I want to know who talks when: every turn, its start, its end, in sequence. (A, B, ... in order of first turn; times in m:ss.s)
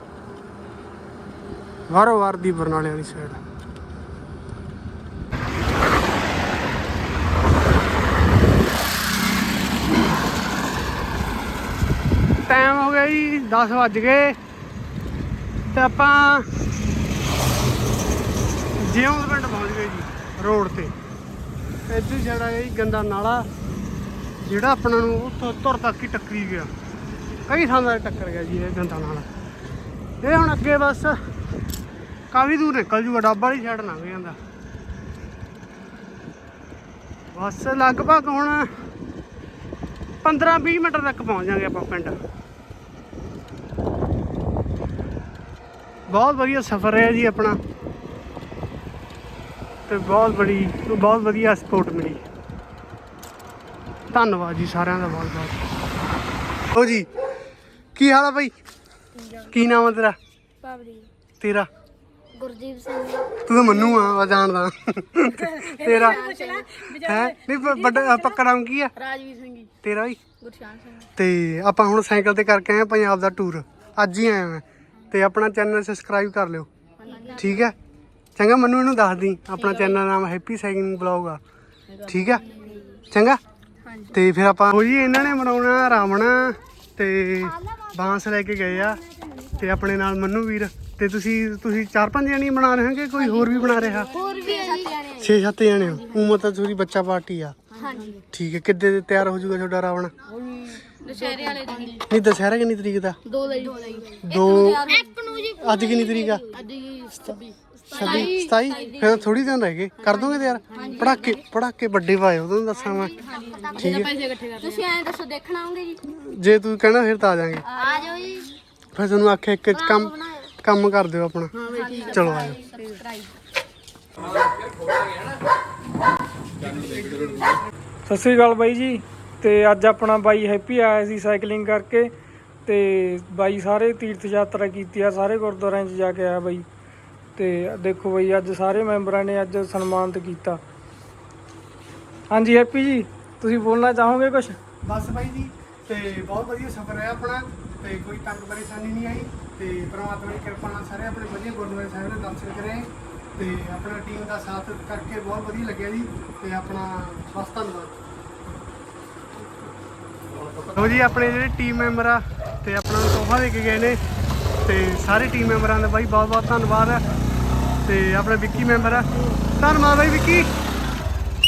0:01.9-0:03.4 A
0:12.5-0:14.4 A
0:15.7-0:16.5 A
0:18.8-0:20.9 A
0:21.9-0:23.5 A
0:24.4-0:26.7 A
0:27.5-0:29.3 A
0:30.2-0:31.2 A
0:32.3-0:34.4 A
0:37.3-0:38.7 A
0:40.2-0:42.2 A
0:46.1-0:47.6 A
0:49.9-0:52.2 A
0:54.1-0:55.6 A
0:56.7-0:57.1 A
0:57.9-0:58.5 A
0:59.5-1:00.2 A
1:00.6-1:01.1 B
1:01.4-1:01.7 A
1:02.4-1:03.4 B
1:03.4-1:08.9 A
1:05.6-1:07.2 B
1:07.9-1:08.2 B
1:09.0-1:09.7 B
1:09.8-1:10.2 A
1:10.4-1:11.0 B
1:11.1-1:16.7 A
1:17.0-1:17.5 B
1:17.3-1:17.7 A
1:18.4-1:21.4 A
1:22.0-1:22.5 A
1:22.4-1:23.0 B
1:23.1-1:23.4 A
1:24.1-1:34.2 A
1:34.1-1:35.3 B
1:35.1-1:37.6 A
1:37.8-1:38.2 B
1:38.3-1:40.1 A
1:40.5-1:42.0 B
1:42.0-1:43.2 A
1:43.3-1:49.1 B
1:44.2-1:45.0 A
1:45.5-1:46.5 A
1:47.9-1:53.2 A
1:50.7-1:51.3 B
1:53.2-1:56.0 B
1:53.8-1:54.2 A
1:56.1-1:57.7 A
1:57.7-1:58.5 B
1:58.9-2:02.6 A
2:00.0-2:00.4 B
2:01.6-2:03.2 B
2:06.8-2:07.3 C
2:08.1-2:12.1 C
2:12.6-2:16.6 C
2:17.4-2:20.6 C
2:22.3-2:24.6 C
2:24.8-2:38.0 A
2:40.6-2:44.0 A
2:44.6-2:47.0 A
2:47.8-2:50.5 A